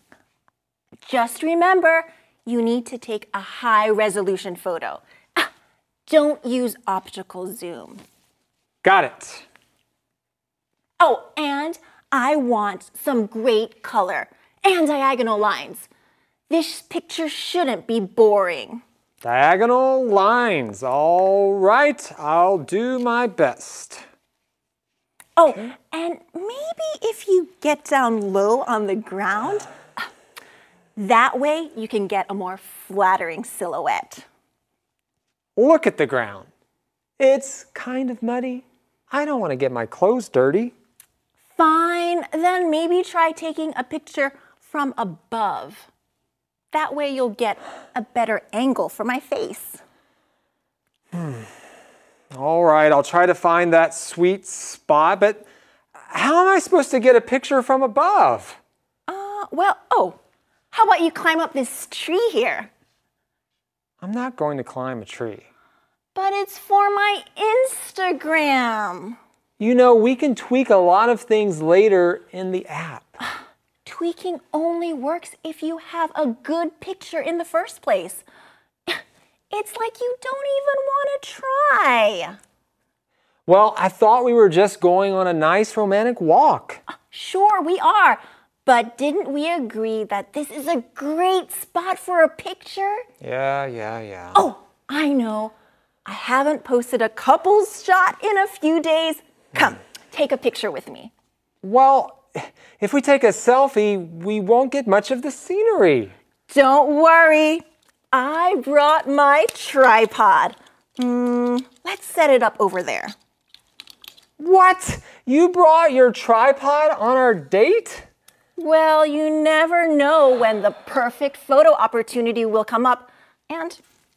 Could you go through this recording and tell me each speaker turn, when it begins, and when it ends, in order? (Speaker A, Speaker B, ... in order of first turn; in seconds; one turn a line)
Speaker A: 1.0-5.5
Speaker A: 6.1-8.0
Speaker B: 8.8-9.4
Speaker A: 11.0-15.9
Speaker A: 16.5-18.8
Speaker B: 19.2-24.0
Speaker A: 25.4-29.7
Speaker A: 30.9-34.2
Speaker B: 35.5-36.5
Speaker B: 37.2-40.7
Speaker A: 41.6-45.9
Speaker A: 46.7-49.8
Speaker B: 51.1-51.5
Speaker B: 52.3-55.5
Speaker B: 56.0-58.6
Speaker A: 59.1-60.2
Speaker A: 60.7-62.7
Speaker B: 64.0-65.5
Speaker A: 66.1-69.2
Speaker B: 69.6-73.2
Speaker A: 73.8-78.2
Speaker A: 78.9-82.4
Speaker B: 83.5-86.8
Speaker A: 87.1-93.0
Speaker B: 93.2-94.5
Speaker A: 94.3-101.1
Speaker B: 101.6-106.1
Speaker A: 106.5-113.1
Speaker B: 114.4-118.1
Speaker A: 118.6-123.8